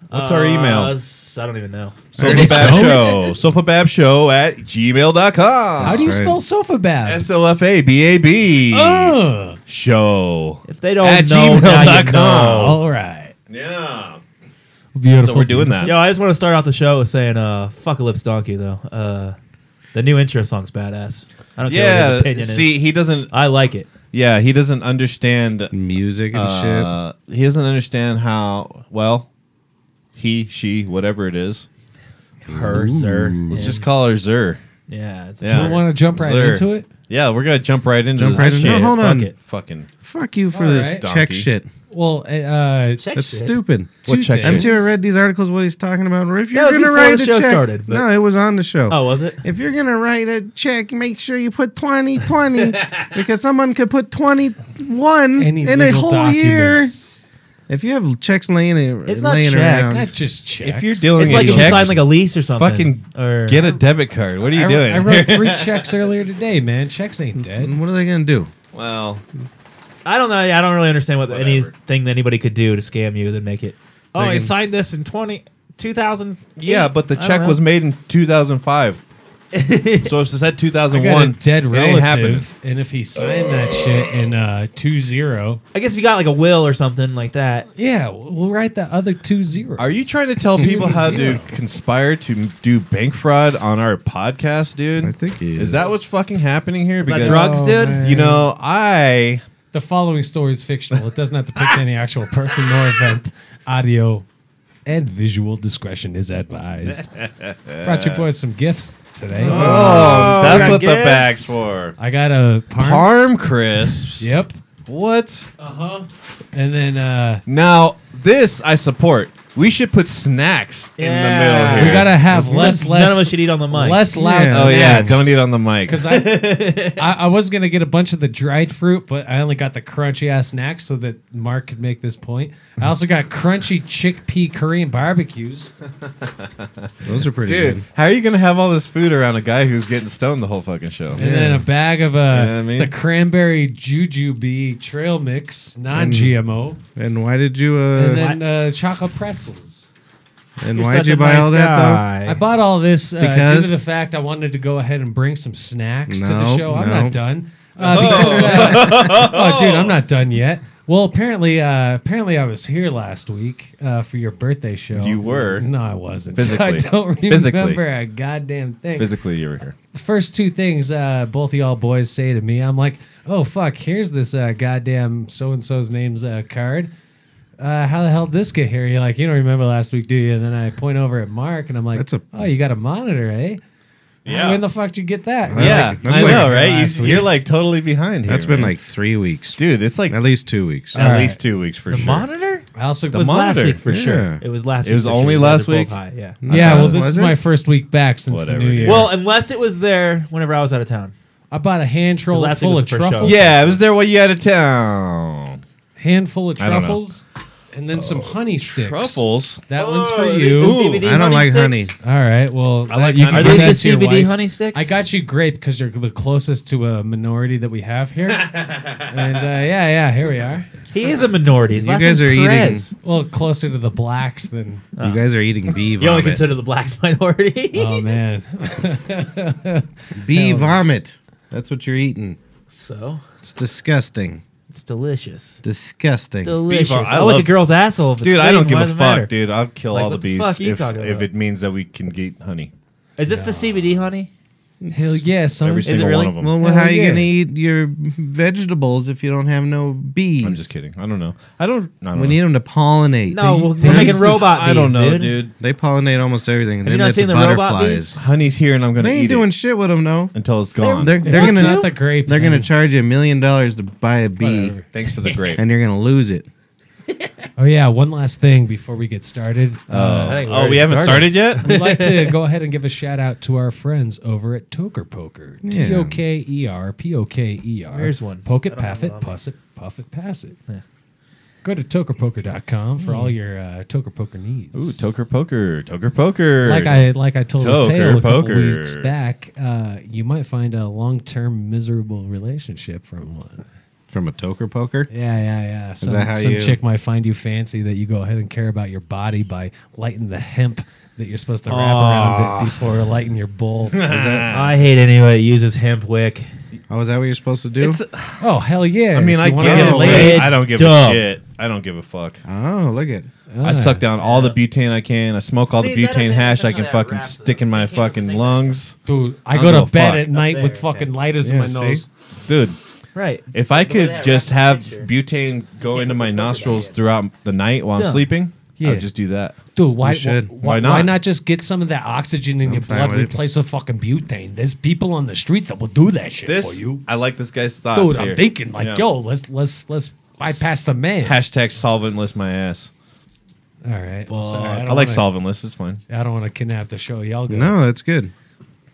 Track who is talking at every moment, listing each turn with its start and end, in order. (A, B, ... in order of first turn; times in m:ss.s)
0:00.1-0:03.2 A
0:00.1-0:01.0 B
0:02.1-0:06.1 B
0:02.2-0:02.9 C
0:02.2-0:03.2 D
0:05.8-0:06.4 C
0:05.8-0:07.3 D
0:07.0-0:12.8 B
0:08.7-0:09.6 D
0:10.7-0:12.8 A
0:12.5-0:13.3 D
0:13.5-0:14.2 B
0:14.9-0:15.8 D
0:15.0-0:16.0 B
0:15.8-0:19.4 A
0:19.9-0:23.9 A
0:21.7-0:23.3 B
0:24.1-0:25.7 B
0:25.7-0:26.9 C
0:26.3-0:29.3 B
0:30.1-0:31.7 B
0:32.4-0:33.8 A
0:32.5-0:33.8 C
0:33.5-0:34.6 B
0:34.9-0:35.8 A
0:35.4-0:39.9 B
0:35.4-0:36.9 D
0:38.2-0:39.3 C
0:38.2-0:39.3 A
0:40.0-0:41.7 C
0:40.5-0:41.0 D
0:40.7-0:41.5 B
0:41.9-0:43.1 D
0:43.0-0:43.6 A
0:43.1-0:57.0 C
0:44.0-0:44.9 D
0:44.1-0:44.8 B
0:46.5-0:48.1 A
0:48.9-0:49.4 A
0:55.4-0:57.2 D
0:57.7-1:00.1 C
0:59.0-1:00.1 A
0:59.9-1:01.8 D
1:00.6-1:05.9 B
1:01.2-1:03.8 A
1:01.3-1:02.0 C
1:04.4-1:07.8 D
1:07.3-1:08.5 C
1:08.7-1:09.2 B
1:10.0-1:17.6 A
1:11.3-1:11.7 B
1:14.2-1:14.5 C
1:16.6-1:19.0 B
1:19.5-1:20.1 A
1:20.0-1:22.5 B
1:20.9-1:25.6 D
1:25.7-1:27.7 A
1:27.7-1:31.5 D
1:29.8-1:39.4 B
1:35.0-1:35.9 C
1:37.0-1:38.0 A
1:37.2-1:38.5 D
1:39.7-1:44.2 D
1:44.8-1:47.1 D
1:46.9-1:48.2 B
1:47.8-1:50.8 D
1:49.4-1:52.0 B
1:49.4-1:51.6 A
1:49.5-1:50.7 C
1:52.0-1:53.1 D
1:52.8-1:54.3 B
1:54.2-1:54.6 D
1:54.8-1:55.5 B
1:55.6-1:57.4 D
1:57.5-2:02.4 B
2:01.0-2:05.2 A
2:01.7-2:05.3 D
2:02.3-2:02.8 C
2:04.2-2:05.3 C
2:04.5-2:06.1 B
2:05.8-2:15.7 D
2:06.1-2:07.0 A
2:16.2-2:16.9 B
2:17.0-2:17.8 C
2:17.4-2:21.3 B
2:21.2-2:26.8 D
2:21.2-2:21.6 C
2:22.3-2:22.9 B
2:25.9-2:26.4 C
2:27.0-2:28.3 C
2:27.9-2:29.9 D
2:30.6-2:32.0 C
2:30.7-2:32.4 A
2:32.2-2:49.2 D
2:33.2-2:33.8 C
2:36.1-2:37.2 C
2:37.8-2:39.6 B
2:38.0-2:39.8 A
2:44.9-2:45.7 B
2:46.3-2:47.8 B
2:48.9-2:49.7 B
2:49.9-2:56.9 D
2:57.6-3:03.6 D
3:01.9-3:02.5 C
3:04.2-3:04.6 B
3:04.2-3:07.2 D
3:05.5-3:06.6 C
3:05.5-3:08.7 B
3:06.2-3:07.3 A
3:08.2-3:11.0 C
3:09.6-3:10.2 B
3:10.9-3:12.3 B
3:10.9-3:11.4 D
3:11.9-3:16.4 A
3:12.8-3:13.4 D
3:13.1-3:13.8 B
3:13.9-3:14.4 C
3:14.8-3:15.9 B
3:16.4-3:17.4 C
3:16.5-3:19.1 D
3:16.5-3:17.0 B
3:18.3-3:19.1 B
3:18.8-3:21.1 A
3:21.5-3:23.4 D
3:22.3-3:23.8 A
3:23.2-3:25.6 B
3:26.0-3:30.8 D
3:26.6-3:27.0 B
3:28.7-3:29.6 B
3:29.7-3:31.9 A
3:30.6-3:31.1 B
3:31.0-3:31.9 C
3:32.0-3:40.7 D
3:32.9-3:33.8 B
3:33.2-3:34.9 A
3:38.4-3:39.3 B
3:40.9-3:42.9 A
3:41.7-3:42.9 C
3:43.0-3:44.8 D
3:45.0-3:45.2 A
3:45.0-3:46.4 C
3:46.0-3:48.3 A
3:47.7-3:50.8 D
3:50.2-3:52.4 C
3:52.7-3:53.2 A
3:53.4-3:54.4 C
3:54.7-3:55.6 A
3:55.6-3:56.6 C
3:56.4-3:59.3 A
3:56.7-3:57.5 B
3:58.2-4:02.7 B
3:59.9-4:01.3 A
4:03.2-4:04.3 A
4:03.3-4:03.7 D
4:04.8-4:05.2 C
4:04.9-4:07.3 D
4:05.6-4:06.5 B
4:05.8-4:06.4 A
4:06.3-4:10.7 C
4:10.4-4:12.4 B
4:12.1-4:14.4 C
4:13.3-4:15.4 A
4:13.8-4:14.4 D
4:13.8-4:15.5 B
4:15.6-4:18.2 C
4:16.8-4:18.2 A
4:18.2-4:19.5 B
4:19.0-4:20.4 C
4:20.3-4:21.2 B
4:20.8-4:21.9 A
4:20.9-4:24.8 C
4:21.2-4:22.7 D
4:24.4-4:24.9 D
4:24.9-4:25.6 B
4:25.2-4:25.6 A
4:25.5-4:26.5 C
4:27.6-4:40.6 D
4:29.9-4:31.8 B
4:30.2-4:32.4 A
4:35.6-4:36.2 C
4:37.9-4:39.4 A
4:41.6-4:45.1 D
4:43.0-4:43.4 A
4:44.7-4:49.1 B
4:46.6-4:53.6 D
4:54.1-4:55.1 C
4:55.1-5:04.1 D
4:56.0-4:56.8 C
5:01.7-5:02.7 B
5:02.0-5:02.4 A
5:03.9-5:04.7 B
5:04.0-5:04.7 C
5:04.5-5:06.5 A
5:06.9-5:08.0 C
5:07.8-5:08.5 B
5:08.4-5:10.5 D
5:09.1-5:12.4 B
5:09.6-5:11.3 A
5:09.6-5:10.2 C
5:12.4-5:13.3 C
5:13.5-5:14.0 D
5:13.6-5:19.0 B
5:14.2-5:14.6 A
5:15.7-5:18.8 A
5:19.0-5:22.0 D
5:19.5-5:20.3 B
5:20.3-5:21.1 A
5:21.4-5:22.0 C
5:22.4-5:22.8 B
5:23.1-5:25.1 A
5:23.5-5:29.5 B
5:25.8-5:27.0 A
5:28.0-5:28.3 A
5:28.8-5:29.1 D
5:29.7-5:37.0 D
5:30.0-5:30.5 C
5:30.6-5:31.2 B
5:32.6-5:33.4 C
5:36.5-5:39.0 B
5:37.9-5:41.4 D
5:40.5-5:42.9 B
5:43.8-5:45.2 D
5:44.3-5:44.8 A
5:44.8-5:46.0 B
5:46.1-5:47.8 D
5:47.5-5:48.3 C